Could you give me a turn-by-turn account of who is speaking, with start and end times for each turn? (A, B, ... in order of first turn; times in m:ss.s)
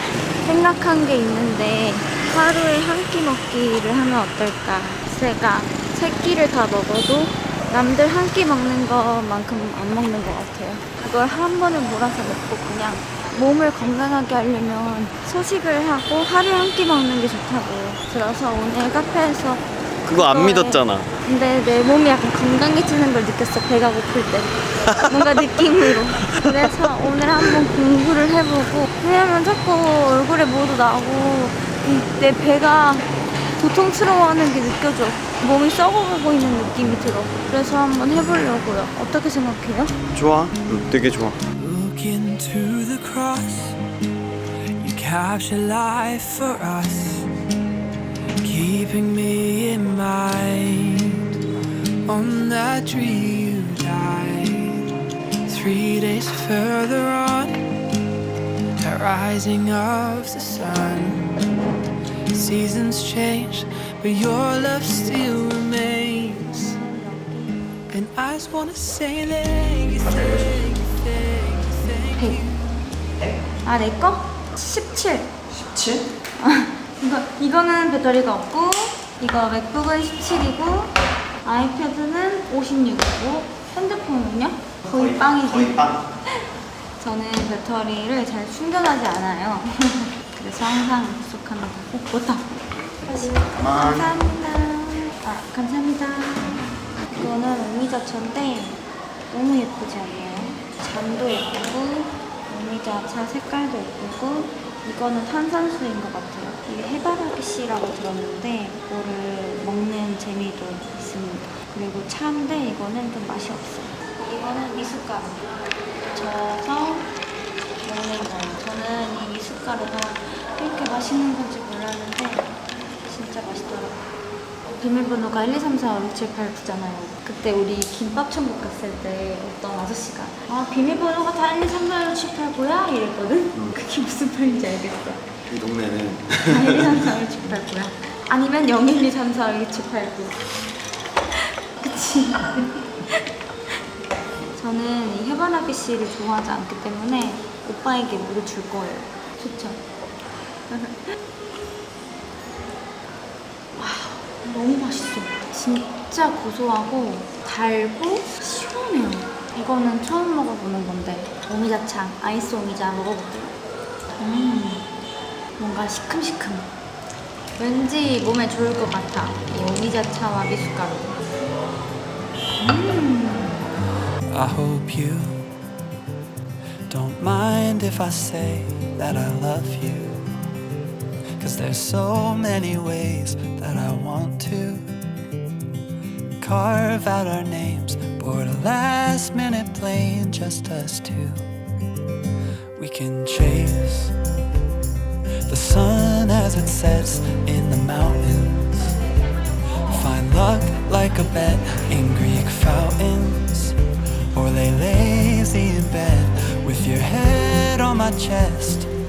0:00.4-0:39.9 A
0:20.0-0:21.1 B
0:24.9-0:25.4 B
0:26.2-0:26.7 B
0:40.1-0:41.4 B
0:41.6-0:43.8 C
0:44.8-0:47.3 C
0:48.4-0:51.4 C
0:52.0-0:54.9 C
0:55.5-0:57.7 C
0:58.8-1:01.4 C
1:02.3-1:06.8 C
1:07.9-1:12.7 C
1:13.6-1:15.3 A
1:15.5-1:16.1 B
1:16.4-1:25.8 A
1:24.8-1:26.1 B
1:27.0-1:36.6 A
1:33.5-1:34.1 B
1:37.1-1:55.5 A
1:56.1-1:57.1 A
1:57.8-2:02.5 A
2:03.0-2:04.0 A
2:04.7-2:15.2 A
2:15.5-2:17.0 B
2:16.5-2:20.6 A
2:21.3-2:23.2 A
2:24.5-2:29.8 A
2:30.7-2:31.0 A
2:33.8-2:43.6 A
2:44.2-2:44.9 A
2:45.6-2:46.7 A
2:47.6-2:51.2 A
2:52.6-2:53.6 A
2:54.3-2:55.5 C
2:56.9-3:00.4 C
3:01.4-3:04.9 C
3:06.4-3:11.5 C
3:12.8-3:14.2 C
3:15.5-3:19.0 C
3:19.9-3:23.8 C
3:24.3-3:28.9 C